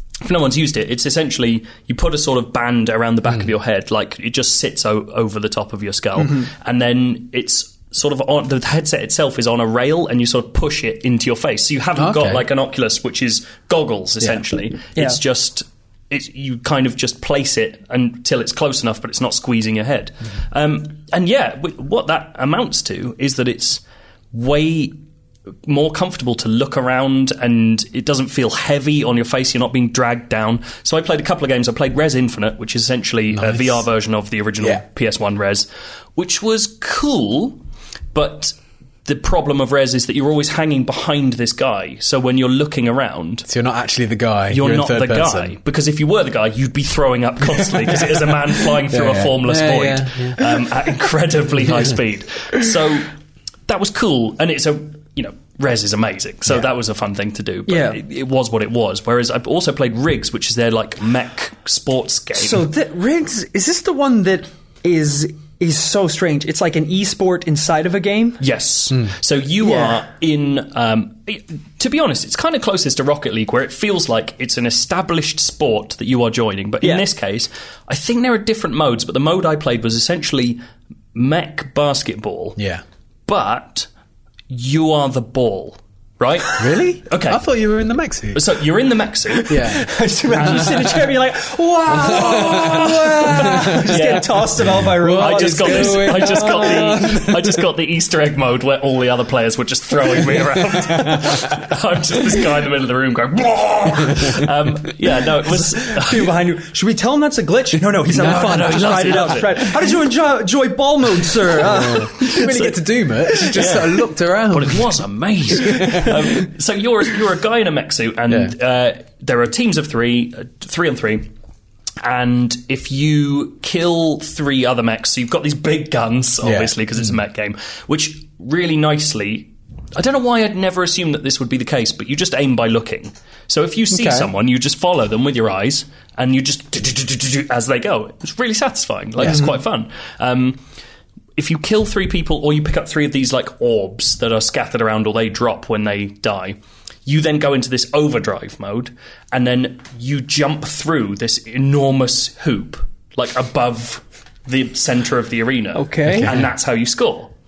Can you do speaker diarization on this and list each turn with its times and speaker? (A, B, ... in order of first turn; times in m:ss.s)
0:00.2-0:23.8 A
0:06.2-0:06.5 B
0:12.0-0:12.4 C
0:24.3-0:24.9 A
0:25.6-0:37.6 A
0:33.3-0:33.8 C
0:38.1-0:38.5 A
0:39.0-0:43.4 A
0:43.5-0:45.5 C
0:44.5-0:53.1 A
0:48.9-0:50.7 C
0:53.7-1:02.7 A
0:57.7-0:58.0 B
1:02.3-1:08.4 B
1:08.4-1:20.6 A
1:09.6-1:10.0 B
1:21.1-1:22.6 A
1:22.6-1:22.8 C
1:23.3-1:23.9 A
1:24.5-1:27.4 A
1:26.6-1:28.4 C
1:28.3-1:29.7 A
1:29.3-1:37.0 B
1:29.5-1:30.9 C
1:30.4-1:30.9 A
1:31.9-1:33.9 C
1:32.3-1:32.7 A
1:33.2-1:34.4 A
1:34.7-1:37.6 C
1:35.1-1:46.3 A
1:40.4-1:41.6 C
1:44.1-1:44.4 C
1:45.5-1:52.7 B
1:48.1-1:49.8 A
1:51.6-1:55.0 C
1:53.5-2:01.3 A
1:55.5-1:56.4 C
1:58.3-1:58.5 C
2:02.0-2:20.6 A
2:06.4-2:06.7 C
2:13.9-2:14.3 C
2:21.4-2:37.3 A
2:35.7-2:36.4 B
2:36.1-2:36.5 C